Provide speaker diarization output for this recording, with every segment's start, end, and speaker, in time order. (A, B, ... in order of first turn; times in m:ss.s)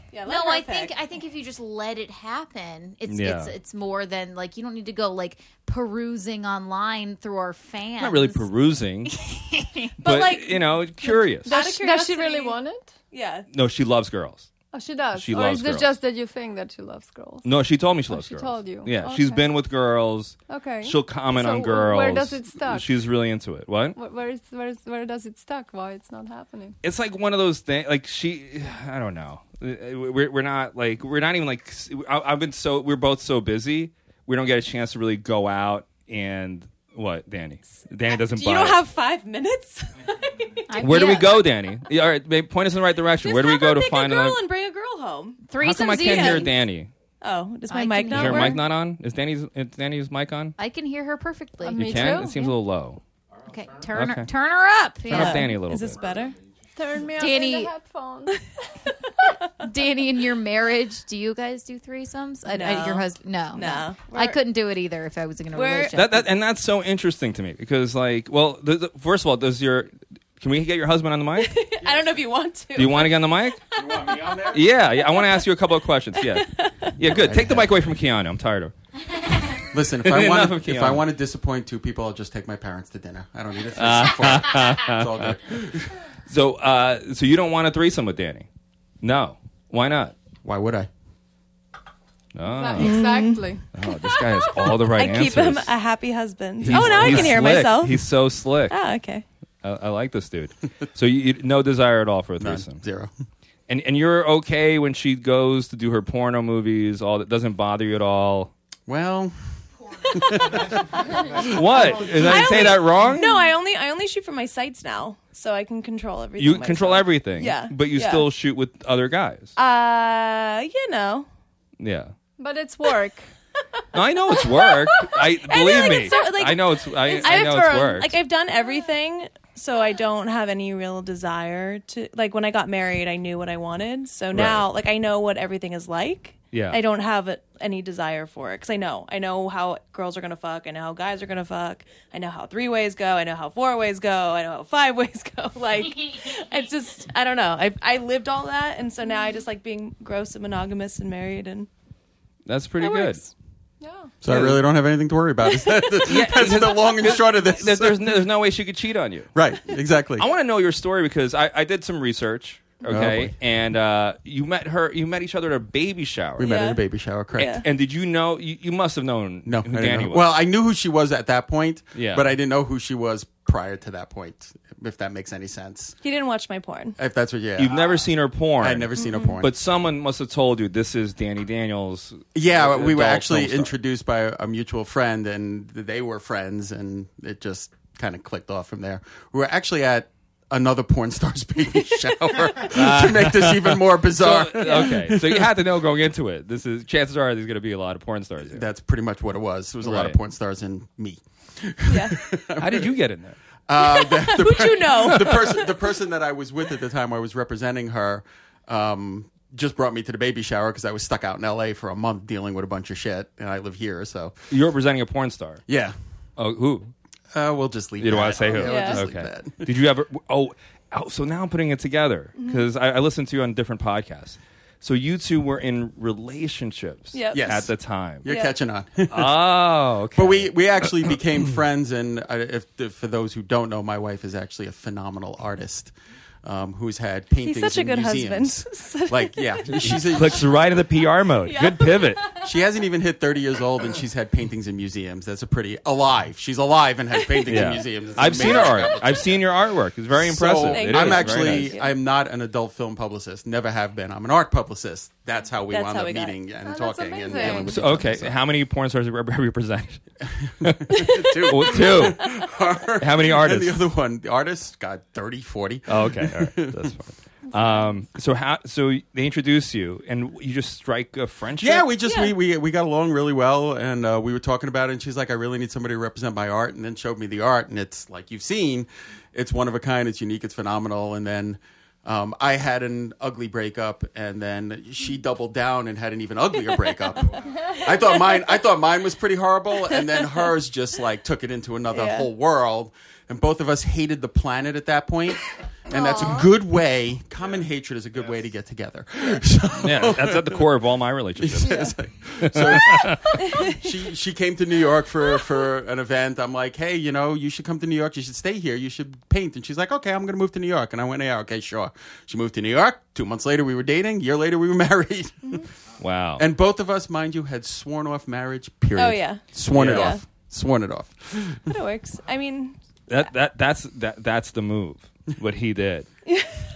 0:00.1-0:00.9 A
0:00.2-0:08.5 B
0:03.1-0:03.5 C
0:08.0-0:09.2 C
0:09.1-0:10.0 B
0:10.0-0:11.5 C
0:10.0-0:12.6 A
0:11.4-0:12.9 D
0:13.1-0:13.5 A
0:13.5-0:14.5 C
0:14.7-0:17.4 D
0:15.1-0:15.9 C
0:17.4-0:24.0 C
0:18.1-0:19.6 D
0:20.5-0:22.9 D
0:24.0-0:26.8 D
0:26.8-0:38.8 C
0:38.1-0:41.0 A
0:40.7-0:41.4 B
0:40.8-0:44.4 C
0:43.2-0:46.5 A
0:45.5-0:46.5 B
0:45.6-0:46.9 C
0:47.2-0:48.6 A
0:47.7-0:48.6 B
0:48.1-0:50.6 C
0:50.6-0:52.5 B
0:51.6-0:52.4 D
0:51.8-0:53.0 C
0:53.5-0:55.5 B
0:53.9-0:54.3 C
0:55.1-0:56.0 C
0:55.1-0:56.4 A
0:56.8-0:58.4 D
0:57.2-0:57.7 B
0:59.6-1:06.2 B
1:02.5-1:04.4 A
1:05.5-1:06.0 A
1:05.9-1:11.5 C
1:11.4-1:13.8 A
1:12.8-1:13.6 C
1:13.8-1:14.7 E
1:14.5-1:18.7 C
1:15.0-1:15.4 A
1:16.2-1:16.9 A
1:17.0-1:17.8 E
1:19.6-1:21.0 C
1:19.7-1:25.9 E
1:23.8-1:25.4 C
1:26.3-1:28.5 C
1:29.0-1:30.2 C
1:30.4-1:30.9 E
1:32.3-1:33.2 C
1:32.4-1:33.7 D
1:32.8-1:38.1 A
1:33.7-1:35.7 C
1:36.6-1:37.6 E
1:36.7-1:38.8 C
1:38.7-1:39.2 A
1:39.6-1:42.8 C
1:42.4-1:43.1 E
1:43.7-1:48.5 C
1:48.9-1:49.3 E
1:50.1-1:51.6 E
1:51.4-1:53.4 C
1:52.0-1:58.3 A
1:56.4-1:59.6 C
1:59.6-2:01.3 A
2:01.8-2:02.1 C
2:02.4-2:03.3 D
2:03.9-2:08.1 C
2:04.5-2:31.7 A
2:07.1-2:07.8 D
2:14.3-2:14.6 C
2:16.5-2:16.8 C
2:32.5-2:33.2 C
2:32.8-2:33.3 A
2:33.8-2:34.1 D
2:34.2-2:38.2 E
2:34.3-2:34.6 C
2:36.0-2:39.3 C
2:39.3-2:40.3 E
2:40.2-2:46.5 C
2:42.9-2:43.3 E
2:46.4-2:47.6 E
2:46.4-2:46.8 A
2:47.4-2:47.6 A
2:47.6-2:50.3 C
2:49.5-2:56.0 E
2:52.0-2:52.3 C
2:56.0-2:57.0 A
2:57.0-2:58.1 E
2:57.6-3:03.7 C
2:58.6-2:59.5 E
2:59.0-2:59.4 A
3:02.4-3:15.5 E
3:12.7-3:18.7 C
3:14.6-3:14.9 A
3:18.4-3:23.0 E
3:19.8-3:20.2 C
3:21.9-3:22.2 A
3:22.6-3:23.4 C
3:23.7-3:34.4 E
3:23.9-3:25.7 A
3:34.5-3:35.6 C
3:35.7-3:36.0 E
3:36.4-3:36.9 C
3:37.3-3:39.8 E
3:38.0-3:48.3 C
3:38.6-3:39.1 A
3:42.4-3:42.7 A
3:47.1-3:47.6 A
3:47.3-3:49.4 E
3:48.3-3:48.5 A
3:49.1-3:50.5 C
3:50.1-3:55.9 E
3:56.4-4:00.5 E
3:57.4-4:00.2 A
3:59.7-4:02.3 C
4:01.4-4:02.5 A
4:02.4-4:09.5 E
4:07.3-4:07.7 A
4:07.5-4:11.7 C
4:08.3-4:09.0 A
4:10.1-4:18.4 E
4:10.7-4:11.9 A
4:15.7-4:16.4 A
4:16.6-4:18.0 D
4:17.5-4:20.0 C
4:20.5-4:26.9 E
4:20.6-4:22.4 C
4:23.0-4:23.8 C
4:25.9-4:31.9 C
4:31.6-5:00.7 E
4:32.0-4:32.4 A
4:50.0-4:50.3 A
4:51.9-4:52.3 A
4:55.9-4:56.5 A
4:59.8-5:01.9 C
5:01.4-5:15.6 E
5:02.4-5:03.4 C
5:16.0-5:16.4 C
5:16.4-5:21.8 E
5:19.0-5:20.2 A
5:19.7-5:20.2 C
5:21.7-5:22.8 A
5:23.1-5:26.1 C
5:26.3-5:26.5 A